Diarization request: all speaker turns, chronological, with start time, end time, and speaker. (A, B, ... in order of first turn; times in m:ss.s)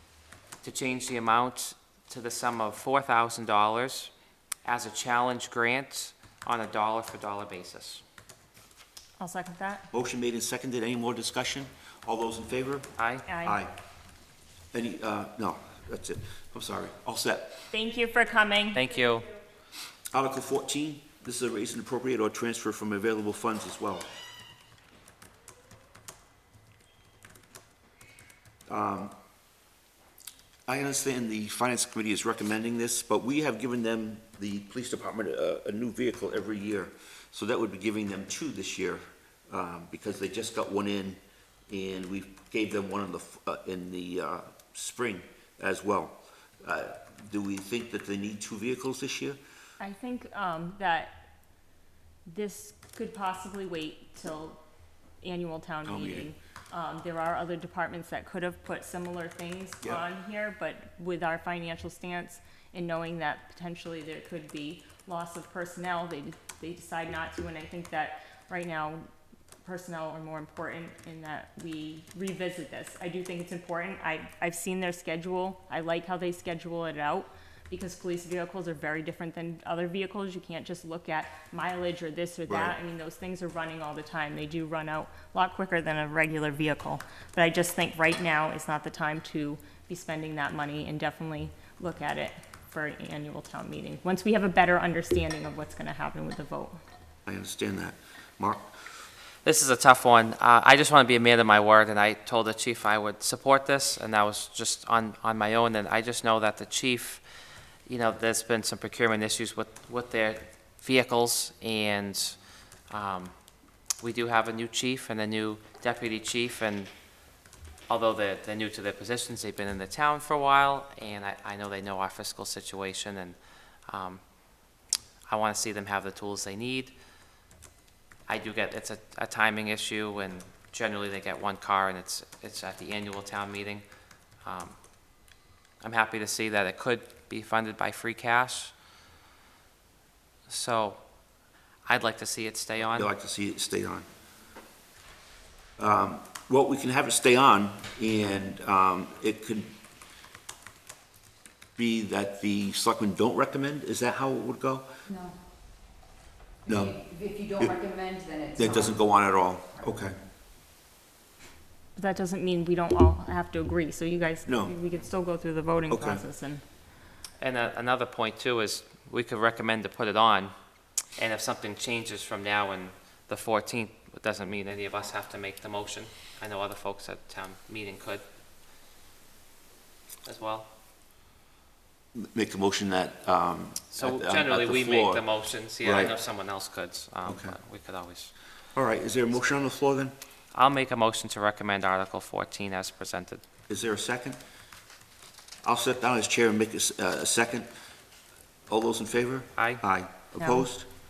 0:00.6-0:04.1 A
0:04.6-0:08.0 A
0:09.2-0:09.9 B
0:09.9-0:12.9 C
0:13.0-0:13.2 A
0:13.3-0:13.6 B
0:13.4-0:13.7 C
0:14.7-0:17.7 C
0:17.7-0:18.9 B
0:18.7-0:19.3 A
0:20.1-0:24.1 C
0:28.7-0:29.1 C
0:30.7-0:49.4 C
0:49.8-0:51.2 B
0:52.3-0:54.6 B
0:55.2-1:09.0 B
0:55.8-0:56.3 C
1:09.6-1:36.8 B
1:22.5-1:22.8 C
1:37.3-1:38.7 C
1:39.4-1:47.2 A
1:47.9-1:52.4 A
1:52.9-1:53.3 A
1:54.0-1:56.9 A
1:57.9-2:03.4 A
2:03.9-2:04.2 A
2:05.3-2:06.9 A
2:08.3-2:13.8 A
2:14.4-2:14.8 A
2:15.8-2:18.7 A
2:20.5-2:21.0 A
2:21.9-2:23.1 A
2:22.9-2:24.1 C
2:25.8-2:29.8 C
2:31.8-2:34.9 C
2:35.1-2:35.4 D
2:36.7-2:37.0 C
2:36.7-2:39.0 D
2:38.6-2:40.2 C
2:42.0-2:46.6 B
2:44.5-2:44.8 C
2:45.9-2:46.2 C
2:47.4-2:50.5 A
2:51.2-2:58.2 A
3:00.2-3:00.7 A
3:02.2-3:05.2 C
3:03.9-3:08.3 A
3:05.8-3:06.1 C
3:07.3-3:07.6 C
3:08.8-3:10.2 C
3:10.5-3:13.4 A
3:13.7-3:14.4 C
3:15.6-3:17.7 C
3:18.7-3:20.9 C
3:19.6-3:19.8 A
3:20.4-3:20.7 B